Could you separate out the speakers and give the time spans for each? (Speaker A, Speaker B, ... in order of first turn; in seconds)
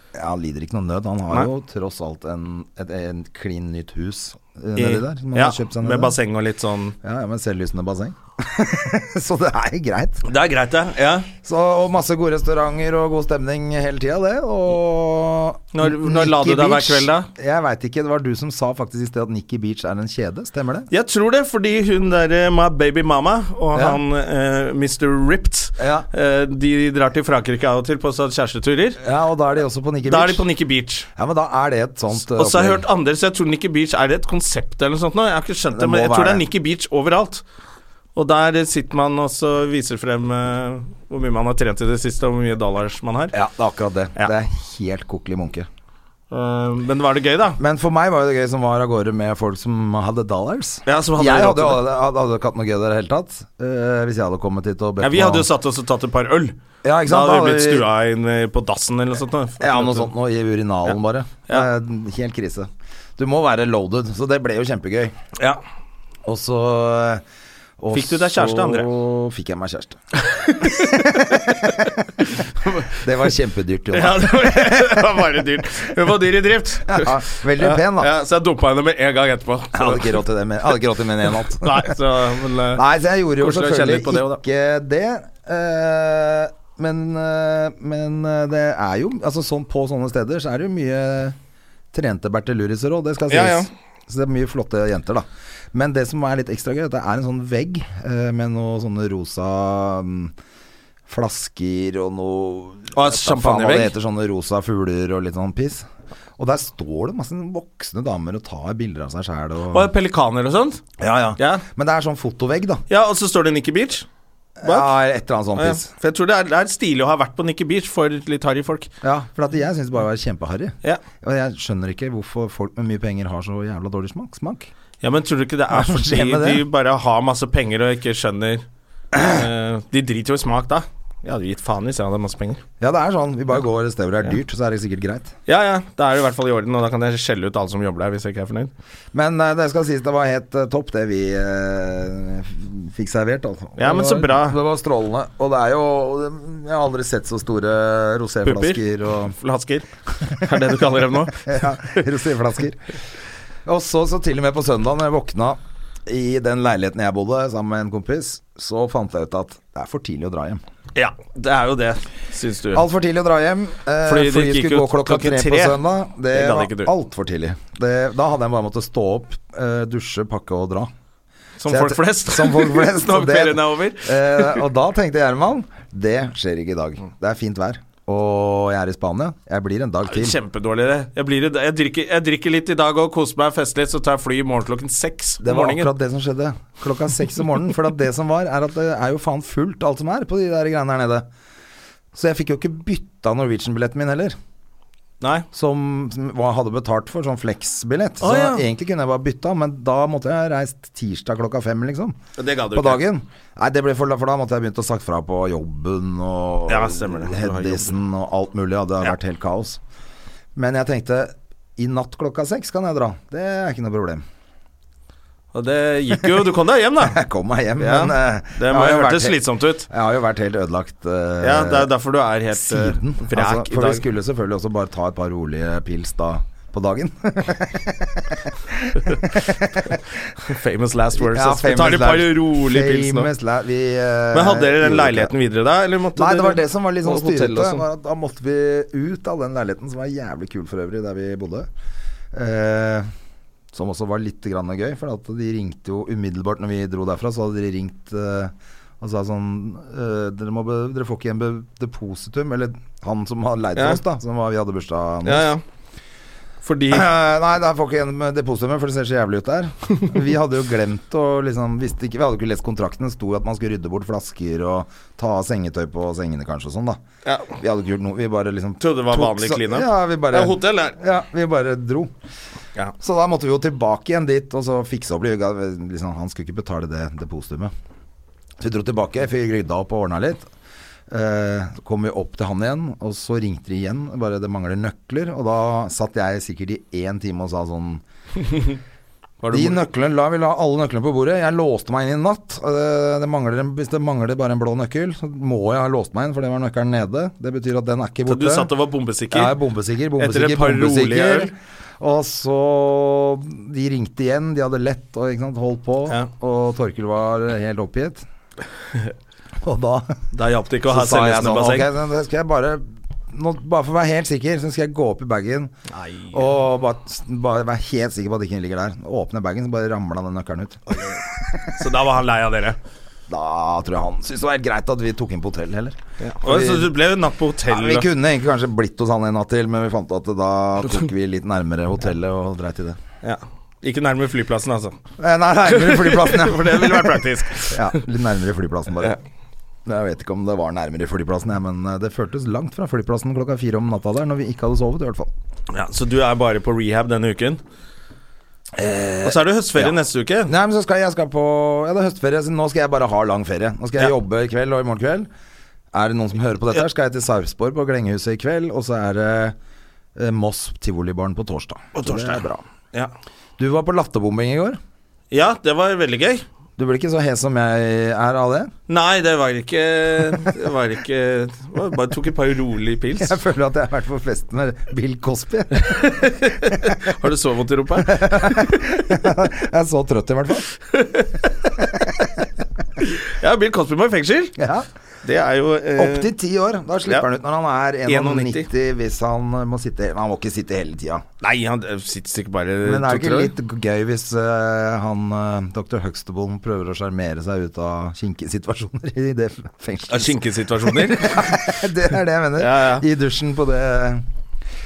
Speaker A: 0.1-6.2, 7.0-10.3, 11.4-20.9, 23.7-24.0, 25.8-26.1, 29.0-30.5, 31.2-32.8, 35.7-36.5, 43.3-45.7, 47.6-55.5, 56.8-57.9, 59.6-65.2, 66.2-67.2, 67.8-70.0, 70.7-75.1, 76.9-78.1, 79.7-82.0, 82.7-91.4, 91.9-100.3, 101.1-105.9, 106.4-109.9, 111.0-112.8, 114.6-115.9, 119.0-124.7, 125.7-126.6, 132.8-135.3, 139.1-149.3, 151.3-152.8, 153.7-160.6, 162.7-170.9, 171.7-180.4, 185.4-191.3, 192.1-194.4, 195.5-202.2, 202.7-209.8, 210.6-214.2, 216.2-216.4, 217.0-221.9, 222.5-230.0, 231.2-235.3, 236.2-241.7, 242.3-243.1, 243.7-255.5, 256.9-267.0, 267.6-272.1, 273.0-277.7, 278.6-280.5, 281.1-288.0, 289.5-298.7, 299.3-308.2, 309.6-310.2, 310.9-315.7, 316.3-321.8, 323.3-326.9, 327.7-333.0, 335.2-339.2, 339.9-345.3, 348.8-355.3, 355.9-359.6, 360.2-362.6, 363.6-364.8, 366.8-368.7, 373.2-376.1, 378.0-380.7, 384.6-384.9, 386.0-391.2, 392.8-404.2
Speaker B: 4.8-7.0, 10.2-11.3, 15.7-17.3, 20.9-29.0, 30.1-31.1, 32.1-37.4, 38.1-43.4, 46.3-47.6, 50.9-51.9, 55.0-60.1, 67.9-68.9, 70.3-72.9, 73.9-80.2, 81.3-82.8, 83.4-84.4, 93.3-93.7, 103.0-103.9, 109.7-110.8, 111.4-111.6, 112.9-114.1, 114.6-114.9, 115.6-118.9, 125.0-132.6, 135.5-138.7, 143.8-144.6, 148.4-152.0, 160.9-162.9, 164.1-165.8, 166.3-166.9, 171.6-174.6, 180.1-185.9, 195.2-195.5, 198.2-198.6, 202.4-203.0, 206.7-208.0, 215.5-217.2, 217.8-219.9, 221.4-224.1, 230.4-233.3, 234.3-237.8, 255.2-255.6, 256.6-257.1, 267.2-267.6, 268.8-271.0, 288.4-288.8, 289.4-289.8, 298.3-299.6, 300.2-301.5, 310.3-311.9, 315.9-316.5, 320.9-322.8, 326.2-328.1, 333.2-335.0, 335.7-338.0, 345.7-347.6, 349.2-350.5, 361.9-363.1, 365.3-366.4, 368.9-373.4, 375.8-379.0, 380.9-381.9, 383.0-384.6, 385.2-386.3, 388.1-388.7, 391.4-393.5, 400.1-401.9, 402.6-403.1